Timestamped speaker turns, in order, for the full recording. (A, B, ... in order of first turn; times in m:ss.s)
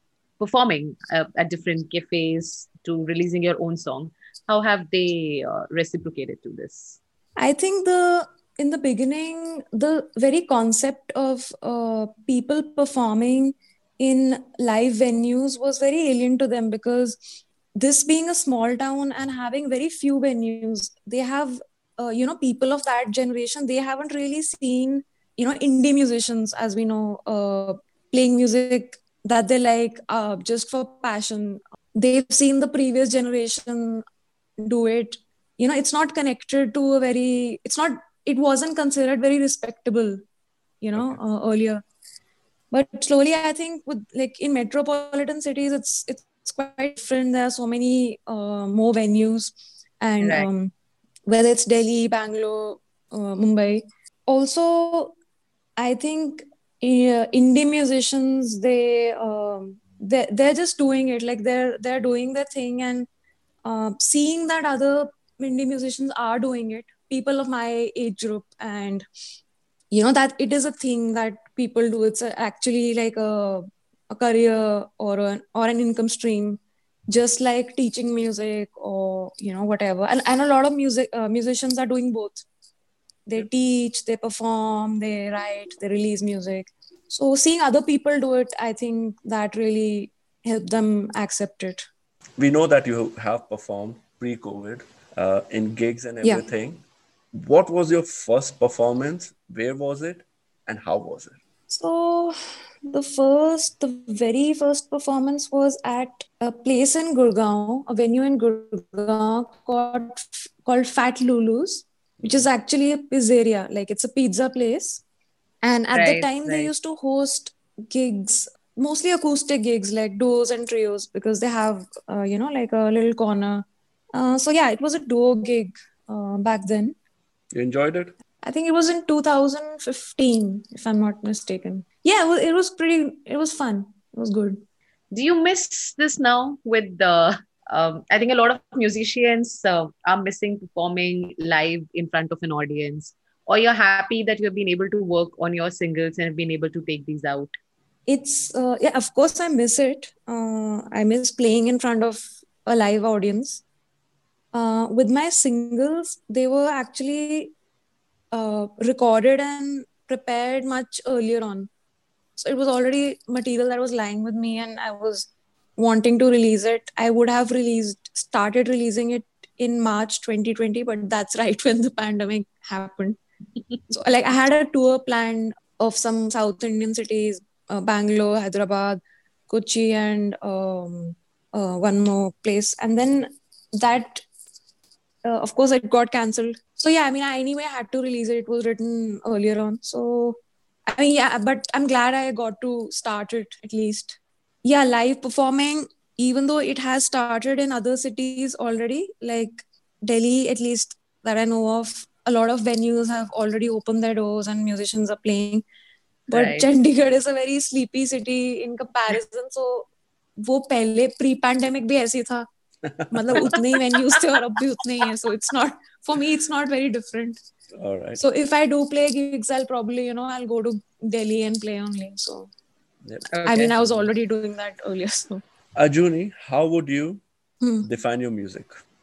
0:00.4-0:07.0 A
0:07.4-0:34.0 B
0:34.6-0:40.2 B
0:40.8-0:41.8 B
0:41.0-0:41.2 C
0:42.7-0:50.7 B
0:50.2-0:50.5 A
0:51.3-0:55.1 B
0:55.8-1:03.1 B
1:03.6-1:09.1 B
1:09.9-1:22.4 B
1:23.3-1:31.9 B
1:32.4-1:36.8 C
1:37.3-1:41.4 C
1:41.7-1:42.4 B
1:42.9-1:55.0 B
1:52.2-1:52.5 C
1:55.6-2:07.0 B
1:55.9-1:56.7 A
2:07.5-2:08.1 C
2:08.4-2:14.6 B
2:15.1-2:27.5 A
2:28.1-2:33.6 B
2:34.5-2:37.5 B
2:38.3-2:41.7 B
2:42.4-2:53.2 B
2:53.9-3:04.3 B
3:05.2-3:25.6 B
3:26.3-3:29.9 B
3:26.3-3:26.7 A
3:30.4-3:32.4 B
3:33.1-3:37.4 B
3:37.8-3:38.2 C
3:38.2-3:42.5 B
3:43.3-3:43.7 A
3:43.4-3:45.4 B
3:45.8-3:47.2 C
3:47.6-3:47.9 B
3:47.8-3:48.7 C